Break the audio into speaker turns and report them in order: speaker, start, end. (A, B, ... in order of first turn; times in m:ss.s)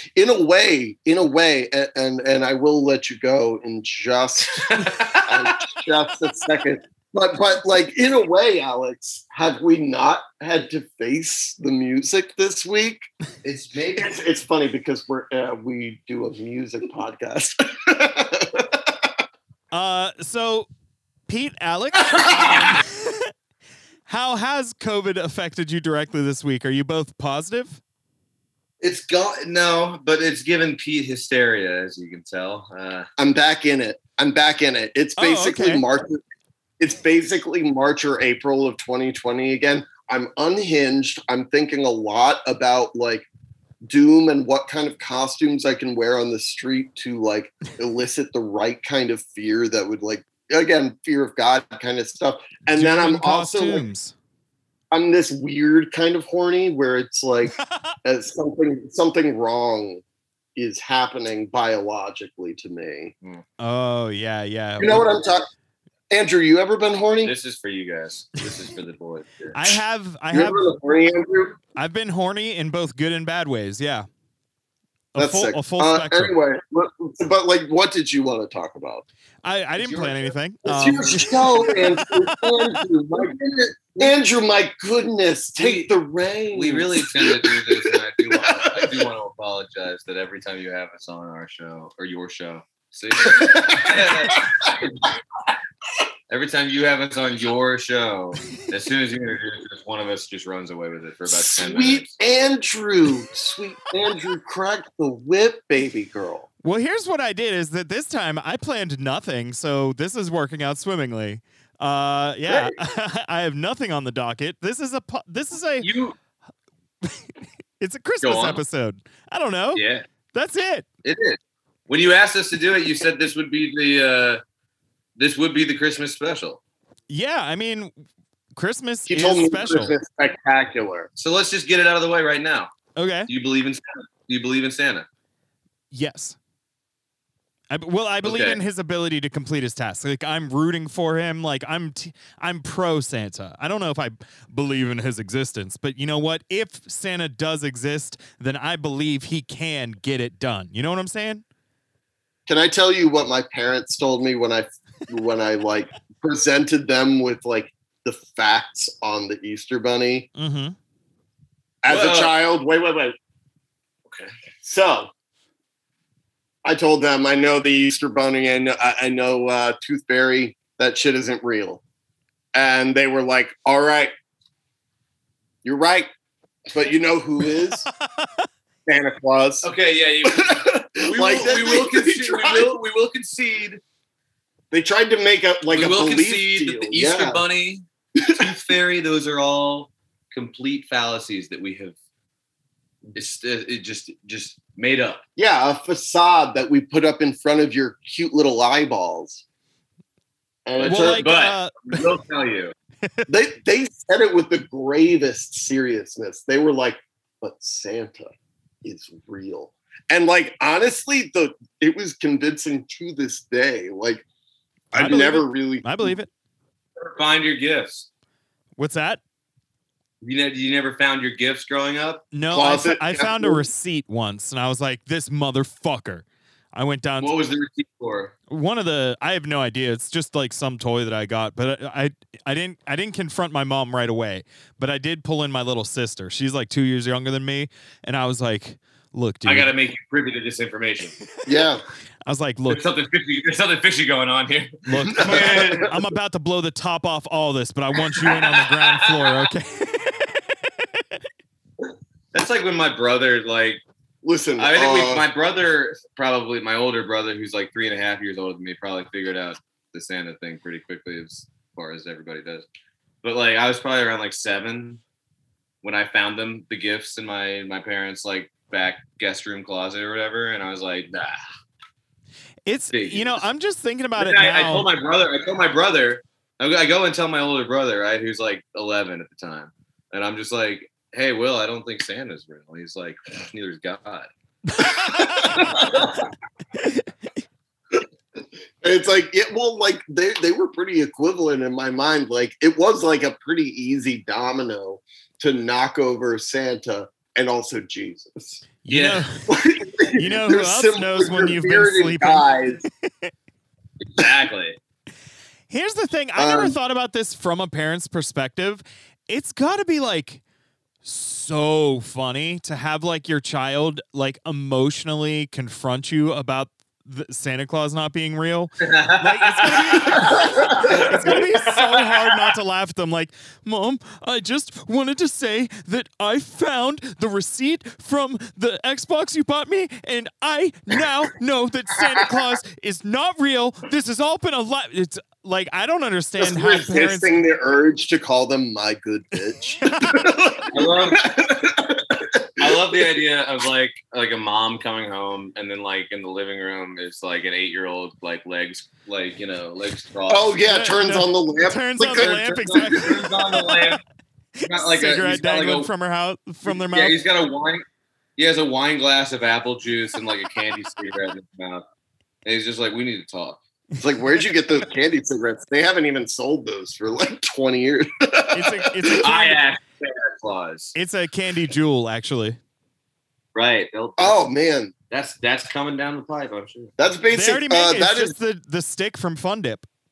0:00.1-0:13.0 A
0:04.6-0:05.6 B
0:13.4-0:14.2 B
0:14.0-0:19.1 A
0:19.7-0:20.7 C
0:21.3-0:23.3 C
0:24.1-0:27.8 C
0:28.8-0:33.1 B
0:33.2-0:36.2 A
0:35.2-0:35.8 C
0:36.8-0:43.2 A
0:43.8-0:53.8 A
0:52.8-0:54.1 C
0:54.9-1:00.0 A
1:00.6-1:03.1 A
1:03.6-1:05.1 C
1:04.8-1:05.5 A
1:06.1-1:07.3 A
1:07.2-1:09.6 B
1:09.5-1:10.7 C
1:10.3-1:11.6 A
1:11.7-1:14.1 C
1:15.1-1:16.3 C
1:15.2-1:19.0 A
1:19.4-1:22.7 C
1:19.8-1:20.3 B
1:20.6-1:29.0 A
1:20.9-1:21.3 B
1:25.6-1:25.9 B
1:26.5-1:34.8 B
1:33.2-1:34.6 A
1:36.3-1:42.2 B
1:41.3-1:46.5 A
1:46.6-1:55.9 C
1:52.5-1:52.8 B
1:55.8-1:56.1 B
1:57.8-1:59.8 C
1:58.2-1:58.6 B
1:59.7-2:00.0 B
2:00.3-2:00.8 C
2:01.0-2:04.4 B
2:05.2-2:06.6 B
2:07.1-2:07.9 C
2:08.6-2:09.9 C
2:09.1-2:11.1 A
2:11.2-2:12.7 B
2:13.0-2:13.3 C
2:13.3-2:15.0 B
2:15.9-2:16.4 C
2:17.7-2:31.4 C
2:18.2-2:18.6 B
2:32.5-2:40.3 A
2:40.4-2:40.8 C
2:41.8-2:43.1 A
2:41.8-2:42.3 B
2:44.6-2:45.1 A
2:46.6-2:51.8 A
2:52.5-2:54.1 A
2:55.6-2:56.1 A
2:56.7-2:57.8 A
2:58.9-2:59.7 A
2:59.6-3:03.8 B
3:00.2-3:02.8 A
3:04.7-3:07.4 A
3:05.7-3:11.9 B
3:08.2-3:08.4 A
3:13.1-3:15.2 B
3:15.4-3:19.4 A
3:20.6-3:21.3 A
3:20.8-3:22.7 B
3:20.8-3:22.1 C
3:23.3-3:28.3 A
3:28.8-3:34.2 A
3:34.9-3:36.1 A
3:34.9-3:36.3 C
3:37.0-3:38.1 B
3:38.8-3:39.2 C
3:40.2-3:42.2 B
3:42.3-3:47.3 C
3:42.5-3:43.6 A
3:47.2-3:48.3 B
3:48.5-3:59.7 C
3:59.4-4:01.2 B
4:01.4-4:01.8 A
4:02.2-4:02.8 C
4:02.7-4:05.9 B
4:04.8-4:10.4 C
4:05.2-4:05.9 A
4:08.2-4:09.5 B
4:12.3-4:13.8 B
4:14.2-4:15.2 A
4:14.6-4:22.6 B
4:23.2-4:25.0 B
4:25.8-4:31.4 B
4:32.6-4:34.9 C
4:32.9-4:33.4 B
4:34.2-4:44.3 B
4:44.7-4:45.7 C
4:45.3-4:46.2 B
4:45.5-4:46.0 A
4:48.8-4:58.6 A
4:58.8-4:59.4 C
4:58.9-4:59.2 B
4:59.5-5:02.8 A
5:00.2-5:02.5 C
5:03.0-5:03.3 C
5:04.0-5:04.8 B
5:05.7-5:10.4 C
5:06.4-5:06.8 A
5:11.0-5:37.3 C
5:18.8-5:22.5 B
5:20.4-5:21.0 A
5:36.4-5:43.0 A
5:39.8-5:40.2 C
5:40.7-5:41.4 B
5:42.6-5:50.5 B
5:50.3-5:53.1 A
5:50.6-5:54.0 C
5:52.2-5:54.0 B
5:54.6-5:57.2 C
5:54.6-5:55.9 B
5:56.6-5:57.8 B
5:58.4-6:01.8 B
6:02.4-6:03.6 B
6:04.0-6:09.2 A
6:08.5-6:09.6 C
6:09.2-6:10.9 B
6:10.9-6:12.6 C
6:13.5-6:14.4 B
6:14.2-6:14.9 A
6:15.1-6:16.9 B
6:17.0-6:18.3 A
6:17.3-6:19.9 C